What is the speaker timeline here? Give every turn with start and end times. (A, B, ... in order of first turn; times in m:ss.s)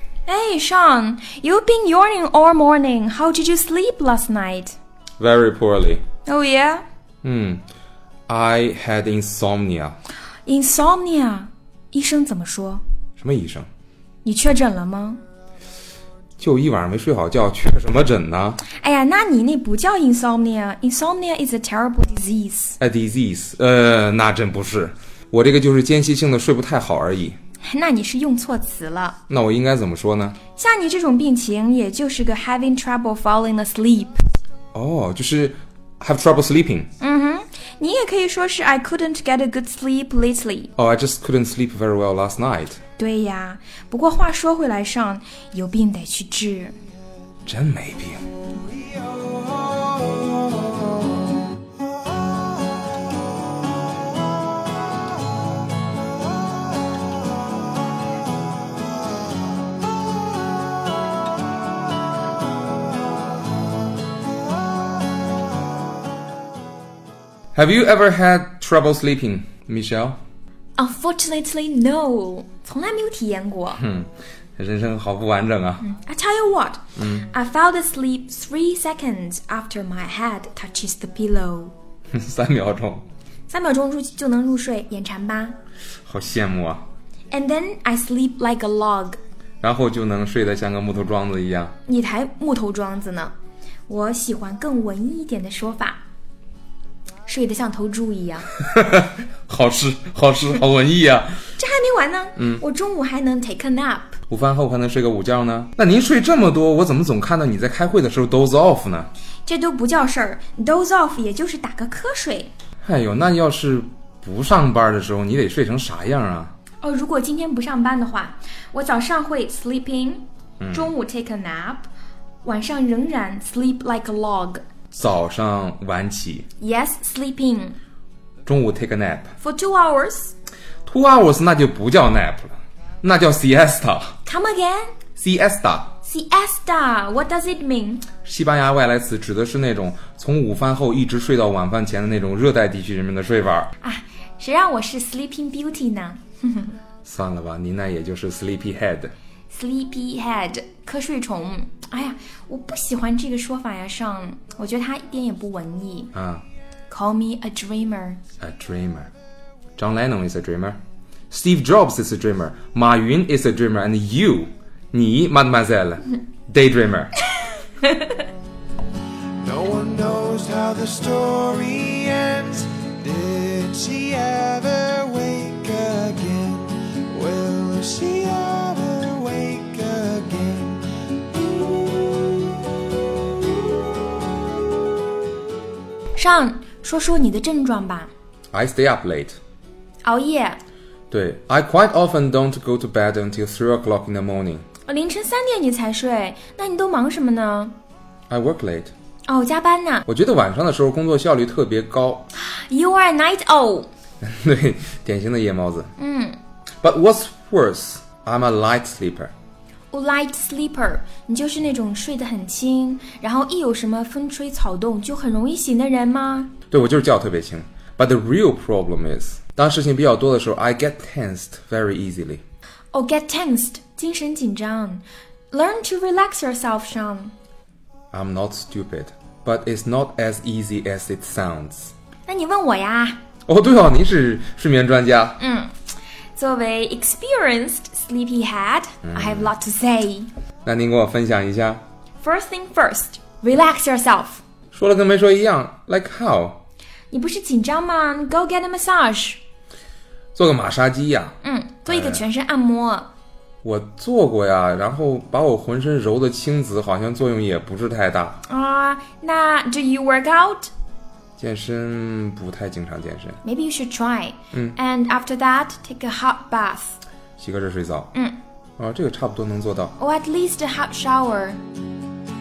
0:00.2-0:04.8 A
0:05.2-0:06.0 B
0:06.2-0:06.8 A
0:07.2-0:07.6 B
0:08.3-0:10.0 B
0:10.4-0:12.8 A
0:13.2-0:13.7 B
0:14.2-0:15.2 A
0:16.4-0:18.6 B
0:18.7-0:22.8 A
0:22.8-0:27.4 B
0:27.6-0:29.2 A
0:29.3-0:30.4 B
0:30.6-0:34.2 A
0:34.7-0:36.9 B
0:37.0-0:40.7 A
0:40.8-0:42.8 B
0:43.0-0:46.7 A
0:47.4-0:48.2 B
0:48.6-0:50.4 C
1:07.5-1:10.2 B
1:10.8-1:13.8 A
1:13.8-1:15.8 B
1:15.8-1:21.7 A
1:17.0-1:17.3 B
1:22.1-1:23.0 B
1:23.5-1:25.6 A
1:26.0-1:26.8 B
1:27.3-1:29.2 A
1:29.6-1:31.7 B
1:31.8-1:33.3 A
1:33.9-1:36.0 A
1:37.2-1:38.5 A
1:38.6-1:41.4 B
1:41.6-1:44.2 A
1:42.4-1:42.6 B
1:44.3-1:49.1 B
1:49.4-1:52.5 A
1:52.8-1:56.5 B
1:56.8-2:01.9 A
2:00.6-2:00.9 B
2:02.4-2:04.6 A
2:04.9-2:06.4 B
2:06.6-2:07.8 A
2:08.4-2:09.3 B
2:09.4-2:10.3 A
2:10.8-2:14.2 B
2:14.2-2:14.9 A
2:15.2-2:15.9 B
2:16.0-2:18.1 A
2:18.2-2:23.7 B
2:23.8-2:26.8 A
2:27.0-2:29.1 B
2:29.5-2:36.1 A
2:36.1-2:36.4 B
2:36.9-2:38.2 A
2:38.4-2:39.1 B
2:39.8-2:40.8 B
2:41.3-2:47.2 B
2:49.4-3:01.8 C
3:06.2-3:08.1 A
3:08.5-3:09.4 B
3:10.0-3:10.6 A
3:11.1-3:14.6 B
3:14.9-3:17.7 A
3:18.3-3:18.9 B
3:19.3-3:20.0 A
3:20.0-3:22.3 B
3:22.4-3:23.9 A
3:24.2-3:25.9 B
3:26.0-3:26.4 A
3:26.8-3:29.3 B
3:29.9-3:36.5 A
3:36.7-3:42.4 B
3:42.9-3:47.3 A
3:48.1-3:51.9 B
3:52.3-3:53.2 A
3:53.5-3:55.4 B
3:55.4-3:55.8 A
3:56.4-4:00.3 A
3:59.0-3:59.5 B
4:00.6-4:01.8 B
4:02.2-4:04.4 A
4:04.7-4:06.6 B
4:07.1-4:09.4 A
4:10.3-4:11.3 B
4:11.4-4:13.1 A
4:11.9-4:12.2 B
4:13.6-4:18.4 B
4:18.4-4:20.7 A
4:21.4-4:23.4 B
4:23.4-4:27.0 A
4:27.4-4:28.1 B
4:28.8-4:29.9 B
4:30.0-4:31.6 A